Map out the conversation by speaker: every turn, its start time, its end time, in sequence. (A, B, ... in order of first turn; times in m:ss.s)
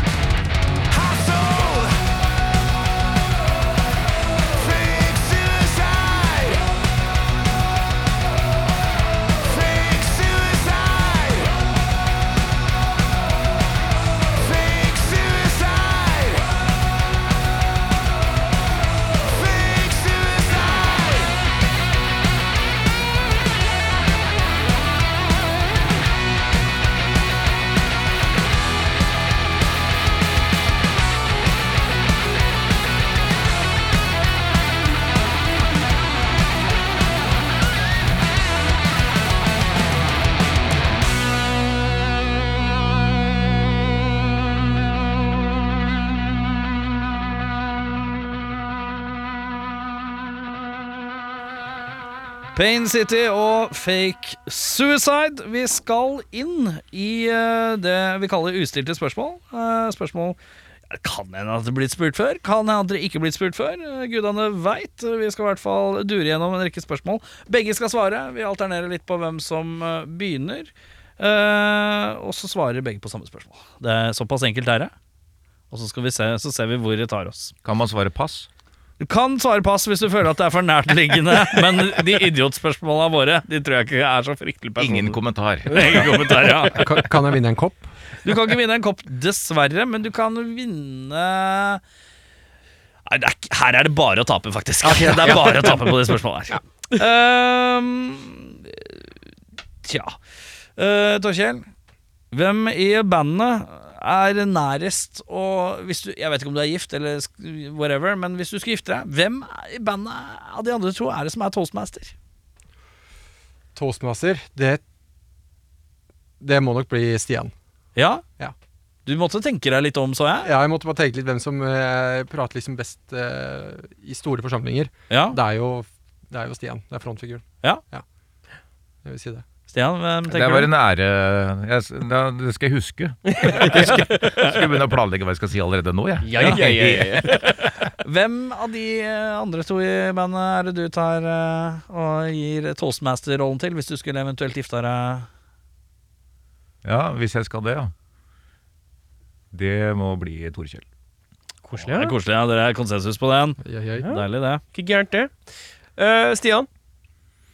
0:00.9-0:02.0 A
0:04.5-0:06.7 A
0:09.3-0:11.6 A
0:14.3-0:16.6 A
0:19.2-0:21.4 A
0:52.6-1:00.4 B
1:00.9-1:14.9 B
1:15.7-1:17.5 B
1:17.6-1:18.5 C
1:19.0-1:27.0 B
1:24.8-1:26.2 C
1:26.7-1:27.9 D
1:28.2-1:31.8 B
1:33.1-1:39.0 B
1:34.8-1:35.9 D
1:39.8-1:40.2 B
1:40.8-1:41.7 B
1:42.3-1:52.1 B
1:53.8-1:54.8 D
1:56.4-1:57.5 D
1:58.0-1:58.2 B
1:59.1-2:00.5 B
2:00.4-2:08.0 D
2:05.1-2:05.4 B
2:09.0-2:09.4 D
2:09.7-2:10.7 B
2:10.3-2:17.5 C
2:13.4-2:13.9 E
2:13.7-2:14.5 B
2:16.2-2:17.6 E
2:16.4-2:25.3 B
2:26.8-2:27.9 C
2:29.5-2:30.8 C
2:31.6-2:32.2 E
2:31.9-2:34.6 B
2:33.6-2:34.1 D
2:34.0-2:35.4 E
2:36.0-2:36.7 E